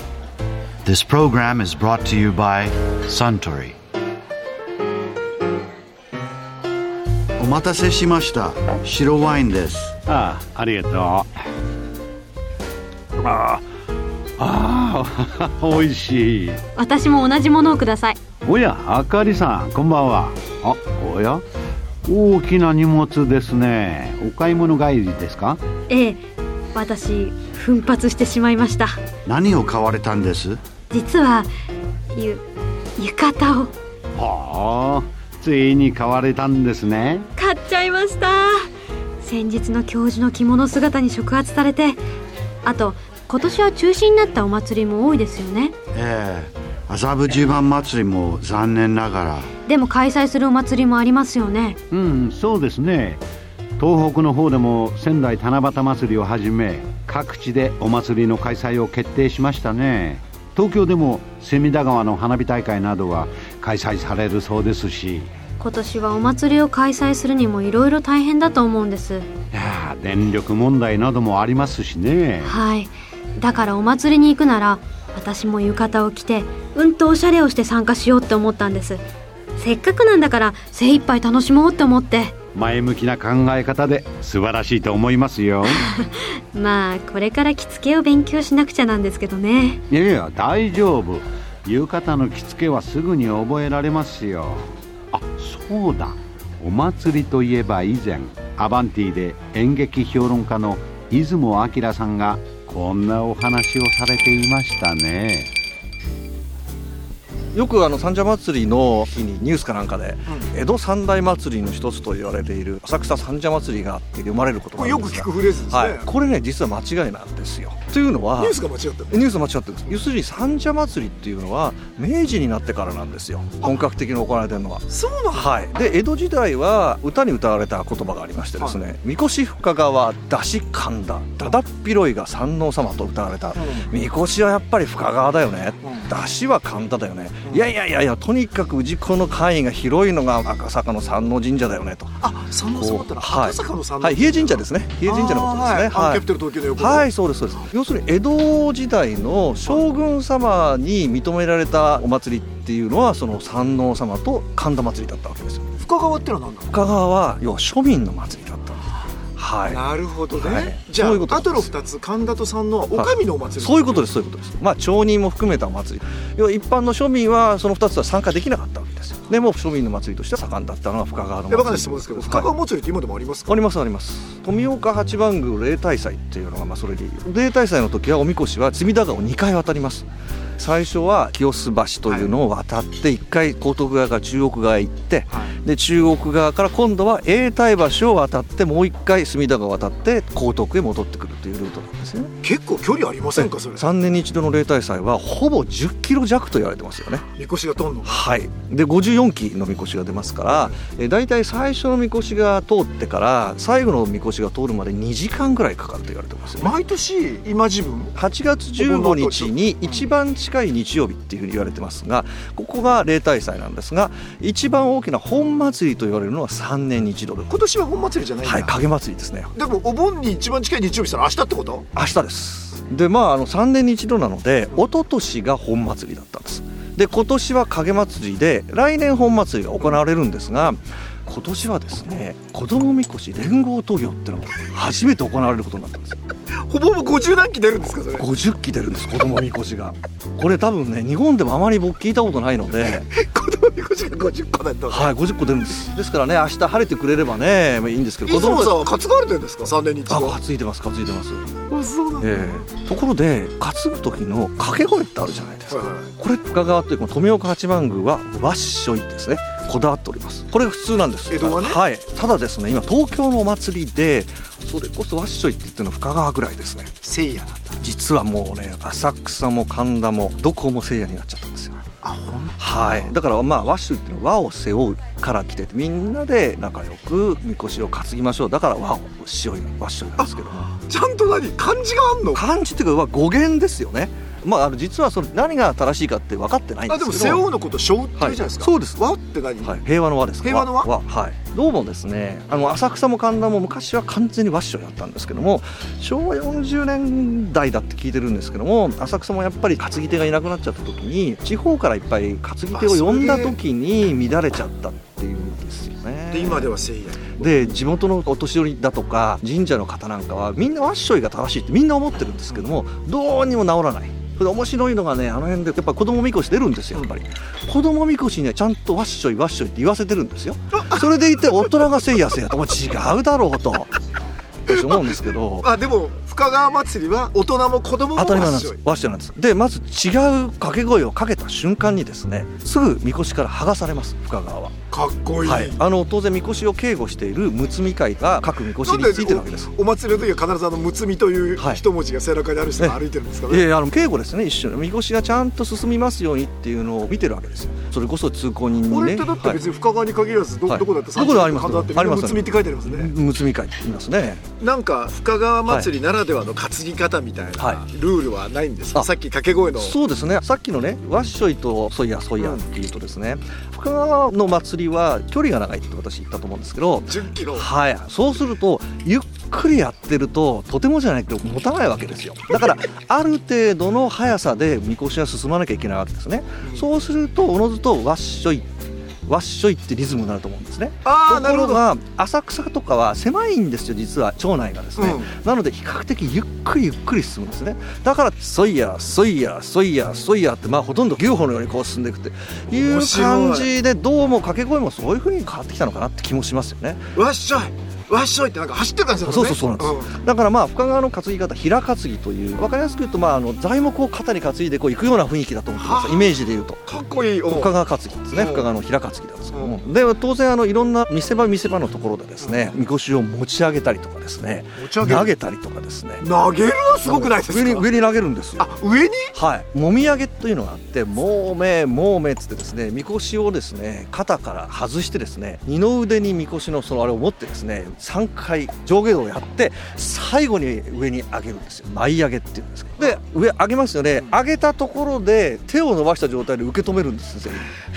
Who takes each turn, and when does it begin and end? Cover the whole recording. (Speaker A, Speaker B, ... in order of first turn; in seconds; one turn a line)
Speaker A: 0.8-3.8
Speaker A: 7.4-10.0
Speaker B: 10.0-11.3
Speaker B: 13.2-13.6
Speaker B: 14.4-16.6
Speaker C: 16.8-18.2
Speaker B: 18.4-21.4
Speaker B: 22.1-25.6
Speaker C: 25.9-26.2
Speaker C: 26.7-29.0
Speaker A: 29.3-30.6
Speaker C: 30.9-31.5
Speaker C: 32.1-32.4
Speaker C: 33.0-33.7
Speaker B: 34.2-37.3
Speaker C: 37.3-38.6
Speaker C: 39.2-42.0
Speaker C: 42.6-45.8
Speaker A: 45.9-49.5
Speaker C: 49.7-51.8
Speaker B: 51.9-53.2
Speaker B: 53.8-65.3
Speaker C: 65.6-69.3
Speaker B: 69.5-72.5
Speaker C: 72.4-79.0
Speaker C: 79.6-82.4
Speaker B: 82.5-85.9
Speaker C: 85.6-89.8
Speaker B: 89.9-105.5
Speaker D: 107.5-155.7
Speaker E: 114.8-116.1
Speaker E: 118.4-119.3
Speaker E: 124.9-125.7
Speaker E: 133.6-133.9
Speaker E: 142.2-147.1
Speaker E: 155.8-156.8
Speaker D: 156.7-161.7
Speaker E: 159.7-164.1
Speaker D: 162.9-172.5
Speaker E: 171.5-173.7
Speaker D: 173.5-180.1
Speaker D: 180.6-192.3
Speaker E: 182.1-182.3
Speaker E: 192.4-193.9
Speaker D: 193.3-197.2
Speaker E: 197.3-198.2
Speaker D: 198.1-206.8
Speaker E: 200.5-200.8
Speaker E: 206.6-208.1
Speaker D: 208.2-217.6
Speaker E: 208.8-210.1
Speaker E: 217.5-218.8
Speaker D: 218.4-219.5
Speaker E: 219.6-221.8
Speaker D: 221.9-236.2
Speaker E: 236.5-238.3
Speaker D: 238.2-243.1
Speaker E: 242.7-245.1
Speaker D: 244.9-248.8
Speaker E: 248.2-250.4
Speaker D: 250.1-251.5
Speaker E: 251.7-252.7
Speaker D: 252.2-266.9
Speaker E: 255.7-256.1
Speaker E: 261.3-261.8
Speaker E: 267.0-267.8
Speaker D: 267.8-271.8
Speaker E: 272.0-273.1
Speaker D: 272.6-280.7
Speaker E: 280.2-282.4
Speaker D: 282.3-287.5
Speaker E: 286.9-289.8
Speaker D: 288.2-289.0
Speaker D: 289.6-306.7
Speaker E: 290.4-290.9
Speaker E: 302.7-303.6
Speaker E: 306.3-307.5
Speaker D: 307.4-324.0
Speaker E: 320.8-321.1
Speaker D: 324.7-325.7
Speaker E: 324.7-328.8
Speaker D: 328.1-334.7
Speaker E: 334.9-335.8
Speaker D: 335.4-339.7
Speaker E: 338.8-343.6
Speaker D: 341.6-341.8
Speaker D: 342.8-349.6
Speaker E: 348.9-353.1
Speaker D: 350.7-354.5
Speaker E: 354.6-359.9
Speaker D: 357.6-357.8
Speaker D: 359.8-378.7
Speaker E: 367.1-367.7
Speaker D: 379.2-397.1
Speaker E: 381.0-381.8
Speaker E: 385.0-385.3
Speaker E: 392.7-393.7
Speaker E: 397.1-400.1
Speaker D: 399.2-406.8
Speaker E: 405.8-407.7
Speaker D: 407.5-416.3
Speaker E: 408.3-408.7
Speaker E: 409.5-409.8
Speaker E: 412.4-412.8
Speaker E: 414.8-415.3
Speaker E: 416.2-417.9
Speaker D: 417.0-418.7
Speaker E: 418.6-419.3
Speaker D: 419.3-437.7